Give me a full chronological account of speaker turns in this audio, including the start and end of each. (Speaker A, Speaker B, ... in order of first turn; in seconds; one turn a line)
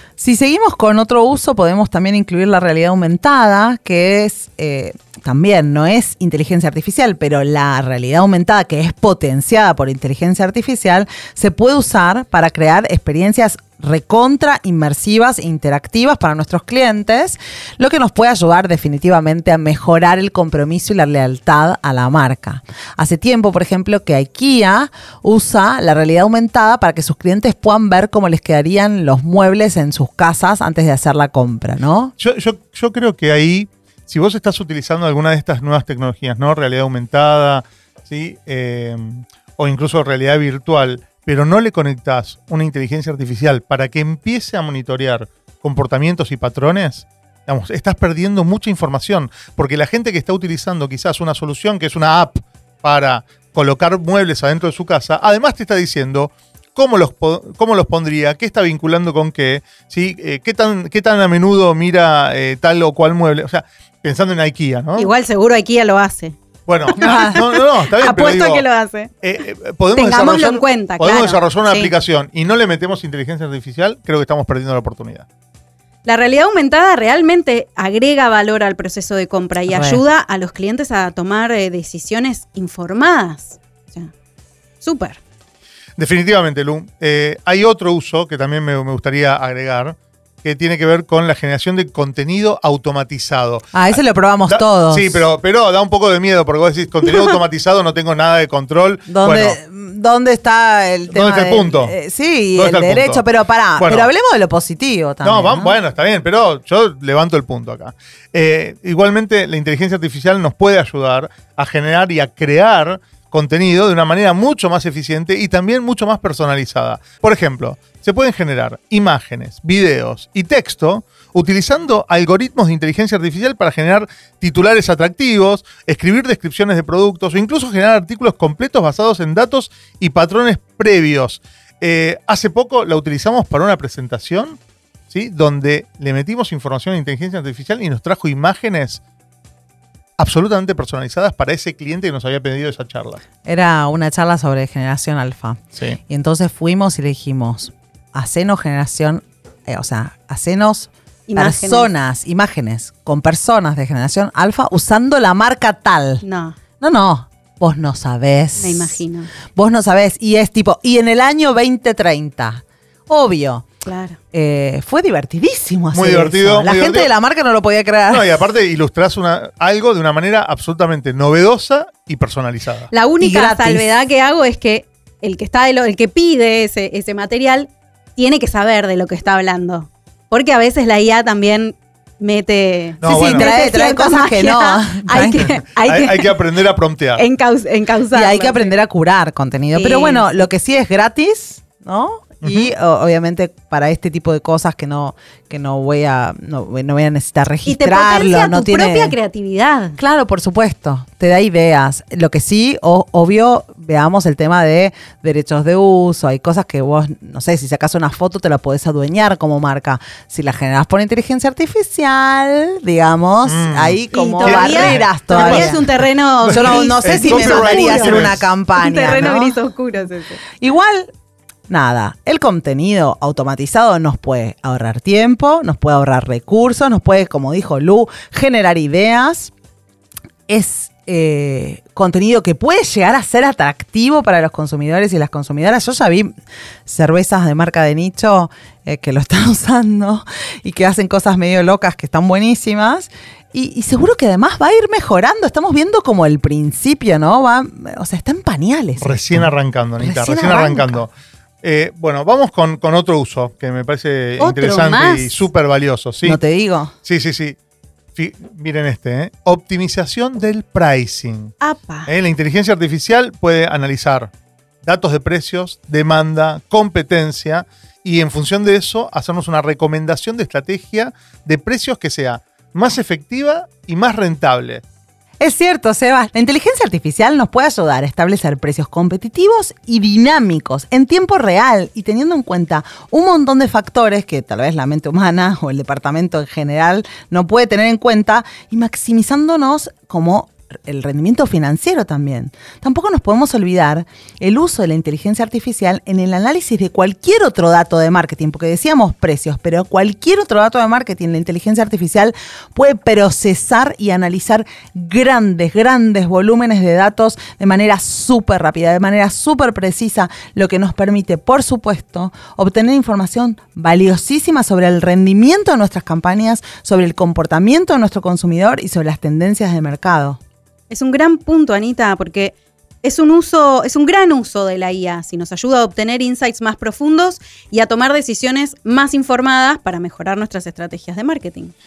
Speaker A: 0.2-32.1
Speaker B: 32.2-65.1
Speaker C: 65.0-66.4
Speaker B: 66.7-68.7
Speaker C: 66.9-69.1
Speaker A: 67.0-67.4
Speaker B: 69.2-75.3
Speaker C: 70.0-71.9
Speaker C: 76.1-84.1
Speaker A: 79.7-80.0
Speaker C: 84.8-85.2
Speaker B: 86.0-99.6
Speaker A: 93.7-95.3
Speaker A: 99.1-105.8
Speaker B: 101.1-102.0
Speaker B: 102.5-103.2
Speaker B: 103.8-104.1
Speaker B: 105.2-134.6
Speaker B: 135.1-139.0
Speaker B: 140.2-143.2
Speaker A: 143.4-156.2
Speaker C: 151.3-151.9
Speaker C: 156.2-156.6
Speaker A: 156.8-163.7
Speaker C: 158.6-159.3
Speaker C: 163.8-164.2
Speaker A: 164.3-168.2
Speaker B: 165.9-167.1
Speaker B: 168.1-172.9
Speaker C: 172.9-186.3
Speaker A: 173.2-173.9
Speaker B: 183.0-183.5
Speaker A: 183.1-185.5
Speaker B: 185.8-187.3
Speaker C: 187.2-188.7
Speaker A: 188.1-199.2
Speaker C: 189.7-190.3
Speaker B: 192.4-192.7
Speaker C: 197.7-200.0
Speaker A: 200.0-215.9
Speaker B: 213.4-218.4
Speaker C: 214.1-220.4
Speaker A: 216.4-219.6
Speaker A: 220.6-221.1
Speaker A: 221.7-229.5
Speaker A: 230.5-236.3
Speaker A: 236.9-251.1
Speaker B: 249.0-251.1
Speaker B: 251.6-256.4
Speaker C: 254.4-255.4
Speaker A: 256.2-256.9
Speaker B: 257.0-257.6
Speaker B: 258.2-261.6
Speaker C: 261.6-262.1
Speaker B: 262.1-264.3
Speaker B: 264.8-274.8
Speaker A: 275.4-320.4
Speaker C: 320.9-331.7